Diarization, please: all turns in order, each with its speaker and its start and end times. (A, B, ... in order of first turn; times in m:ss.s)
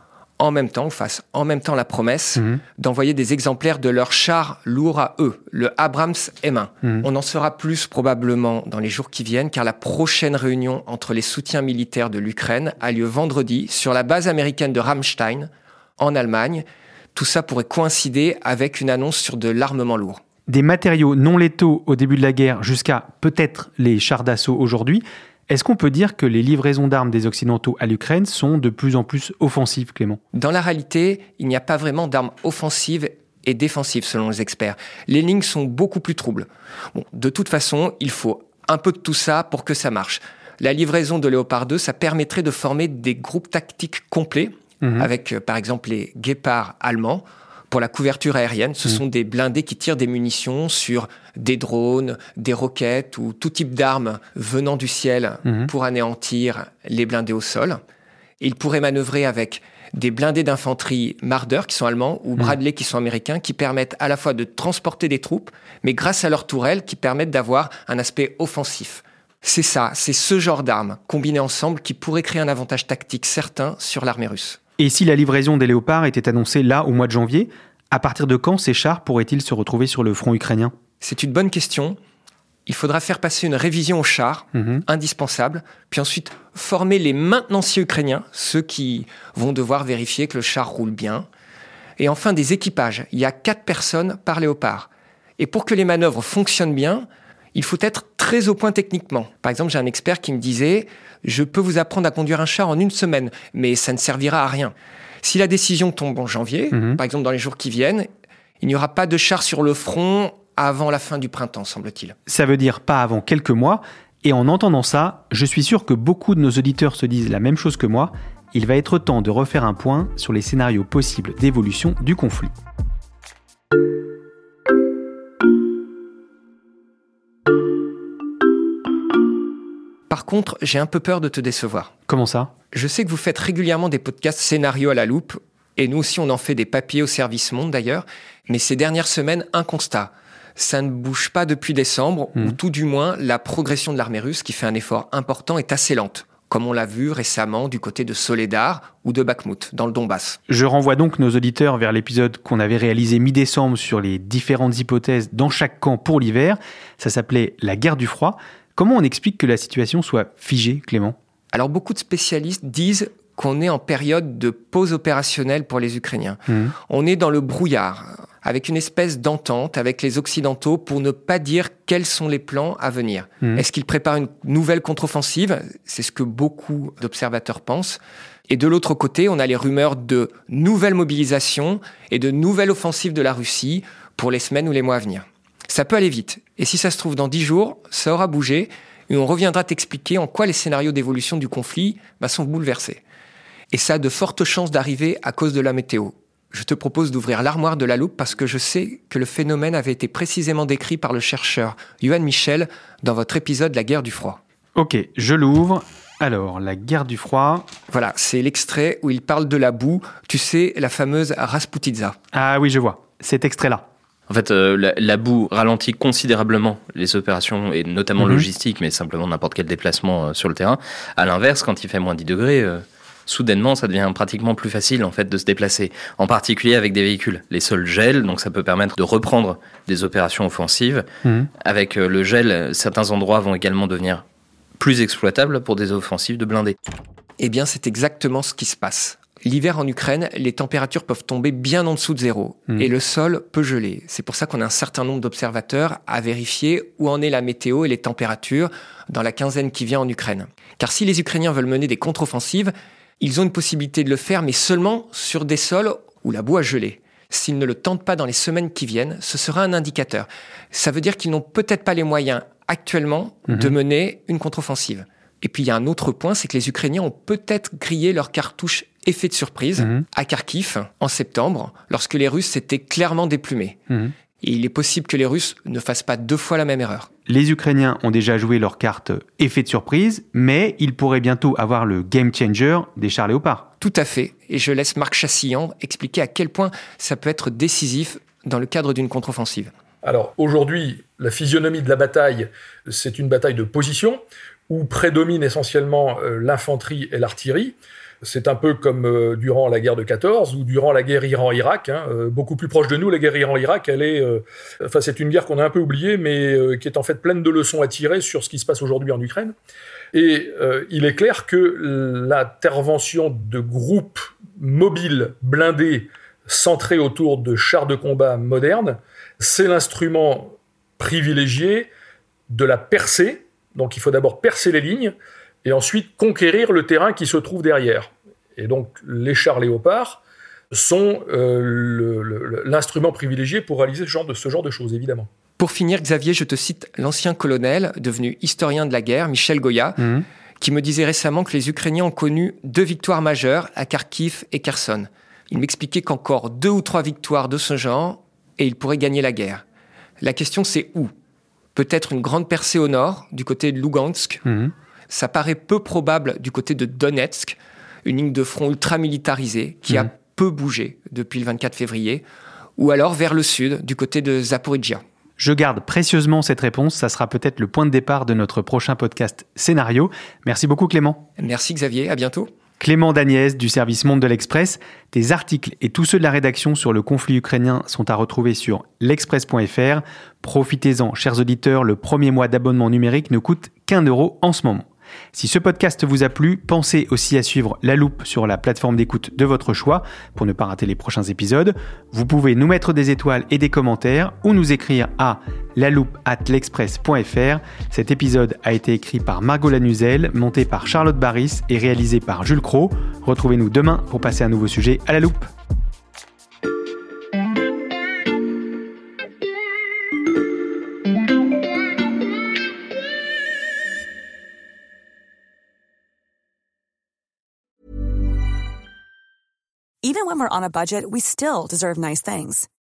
0:00.4-0:20.2 A
0:20.5-0:30.2 B
0:30.3-0:57.8 A
0:44.8-0:45.1 B
0:58.4-1:14.6 A
1:14.8-1:20.7 B
1:21.0-1:22.0 A
1:22.7-1:31.2 A
1:24.5-1:24.8 B
1:32.0-1:48.1 A
1:46.7-1:47.0 B
1:48.6-1:52.2 A
1:52.3-2:02.5 B
2:10.1-2:11.9 A
2:12.1-2:12.5 B
2:12.7-2:30.4 A
2:30.5-2:41.2 B
2:41.5-3:13.0 A
2:46.5-2:46.7 B
3:13.7-3:24.4 A
3:24.8-3:27.7 B
3:27.9-3:32.2 A
3:32.3-3:33.8 B
3:34.3-3:51.1 C
3:38.2-3:38.5 B
3:51.6-3:54.2 C
3:54.8-3:56.8 C
3:57.4-4:33.8 A
4:23.5-4:23.8 B
4:29.8-4:30.0 B
4:34.4-4:37.1 A
4:37.3-4:43.7 B
4:43.8-4:49.7 A
4:50.0-5:09.5 D
5:10.1-5:21.9 D
5:22.5-5:35.3 D
5:35.6-5:40.1 A
5:40.6-5:49.6 A
5:50.2-5:51.1 A
5:51.8-5:54.5 A
5:54.5-5:54.7 B
5:55.1-6:02.2 A
6:02.8-6:05.0 A
6:05.4-6:11.3 B
6:11.4-6:12.5 A
6:12.8-6:45.5 B
7:00.0-7:02.7 E